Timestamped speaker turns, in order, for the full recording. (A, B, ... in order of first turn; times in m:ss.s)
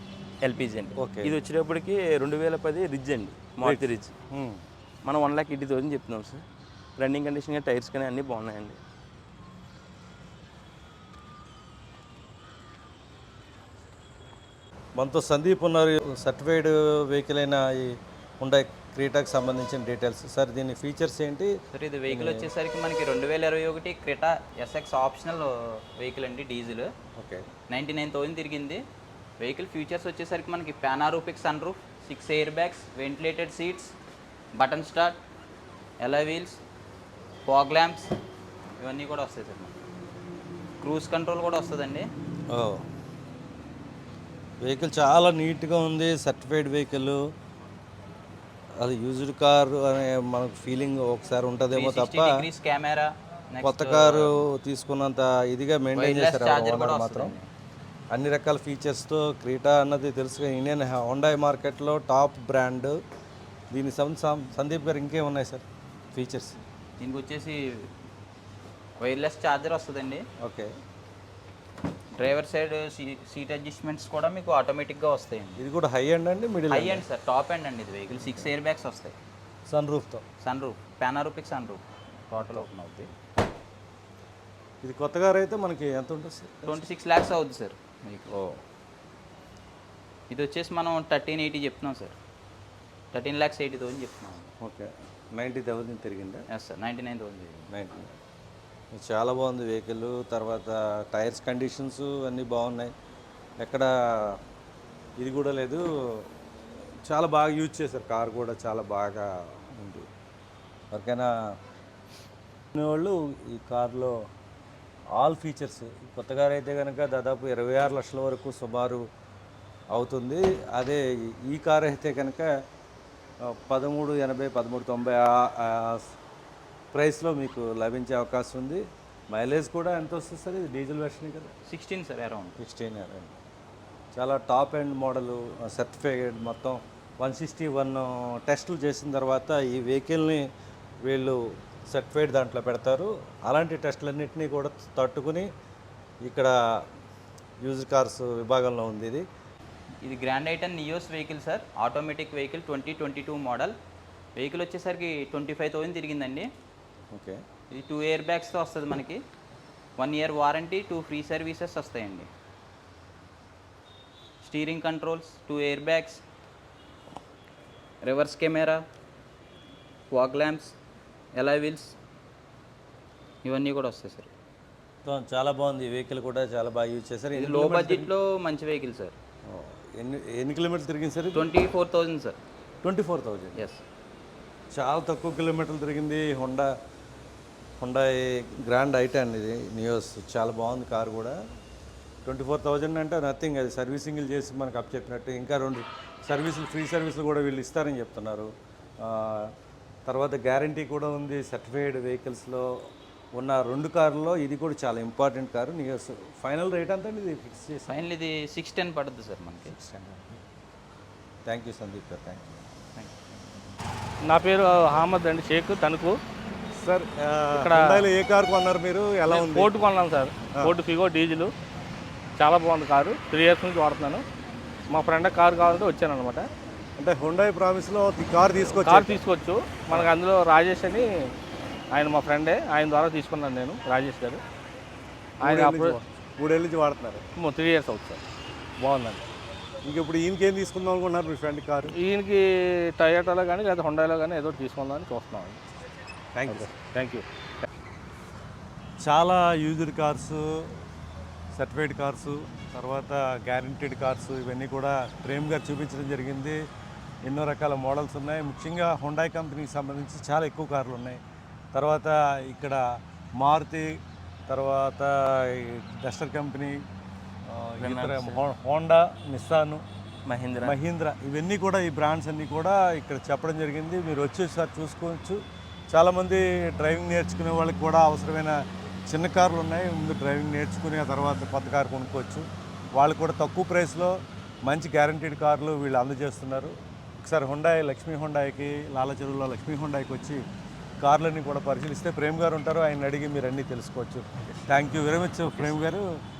0:00.4-0:04.1 A
0:01.0-0:01.3 B
0:03.6-0:04.6 B
0:05.0-0:06.4 A
0:07.0-0:08.8 A
0:15.0-0:21.5 B
0:21.7-0:26.9 C
0:22.1-0:22.5 B
0:27.2-0:27.4 B
0:27.7-0:28.8 C
0:29.4-0:33.9 C
0:34.5-0:35.2 C
0:36.0-0:36.6 C
0:37.4-0:38.1 C
0:38.8-0:39.7 C
0:40.8-0:42.1 C
0:42.5-0:42.8 B
0:44.6-0:47.2 B
0:48.8-0:52.4 B
0:51.7-0:54.4 C
0:53.6-0:57.3 B
0:55.9-0:57.5 C
0:58.1-1:03.0 B
1:03.7-1:06.6 B
1:07.0-1:07.9 C
1:09.0-1:10.2 C
1:10.4-1:10.7 B
1:12.2-1:15.6 C
1:15.6-1:17.0 B
1:16.7-1:19.2 C
1:19.7-1:20.2 B
1:20.4-1:23.1 C
1:22.4-1:22.6 B
1:24.8-1:26.8 B
1:26.7-1:28.6 C
1:30.3-1:32.1 C
1:33.1-1:34.4 C
1:34.6-1:36.4 B
1:36.5-1:37.7 C
1:37.7-1:38.1 B
1:38.9-1:42.9 B
1:43.6-1:44.4 B
1:45.2-1:45.8 B
1:47.0-1:50.0 B
1:50.9-1:51.3 B
1:52.7-1:54.1 B
1:55.1-1:59.0 B
1:59.9-2:02.5 B
2:03.5-2:06.0 B
2:06.9-2:11.5 B
2:11.7-2:12.6 C
2:12.6-2:13.4 B
2:14.1-2:20.4 B
2:21.0-2:21.4 B
2:21.9-2:25.5 B
2:26.2-2:26.5 B
2:27.6-2:29.2 B
2:30.0-2:33.7 C
2:34.4-2:36.5 C
2:37.1-2:37.4 B
2:37.7-2:39.2 C
2:40.0-2:42.3 C
2:44.4-2:46.2 C
2:48.0-2:48.8 C
2:50.1-2:50.7 C
2:51.4-2:51.9 C
2:53.4-2:54.3 C
2:55.0-2:58.1 B
2:57.3-2:59.1 C
2:59.4-3:01.5 B
3:01.3-3:02.4 C
3:02.8-3:03.6 B
3:04.7-3:06.7 B
3:07.8-3:11.4 B
3:12.2-3:18.5 B
3:19.0-3:19.5 B
3:20.0-3:22.7 B
3:23.4-3:28.0 B
3:27.9-3:29.7 C
3:29.7-3:30.4 B
3:31.4-3:32.6 B
3:34.3-3:36.1 D
3:36.8-3:39.7 B
3:37.5-3:38.0 D
3:39.3-3:41.5 D
3:42.4-3:44.2 D
3:44.9-3:46.4 D
3:47.0-3:49.2 B
3:48.7-3:51.0 D
3:51.9-3:54.4 D
3:55.4-3:57.2 B
3:55.4-3:56.0 D
3:57.4-3:58.2 D
3:58.8-3:59.2 B
3:59.8-4:01.9 B
4:01.9-4:05.6 D
4:06.3-4:06.7 B
4:06.5-4:07.2 D
4:09.0-4:10.8 B
4:11.5-4:16.6 B
4:17.2-4:21.2 B
4:21.7-4:23.9 B
4:24.5-4:26.8 B
4:27.5-4:29.8 B
4:27.8-4:28.4 A
4:30.2-4:30.8 A
4:30.6-4:35.4 B
4:35.9-4:42.4 B
4:43.0-4:50.4 B
4:51.0-4:56.1 B
4:54.5-4:54.9 A
4:55.4-4:55.8 A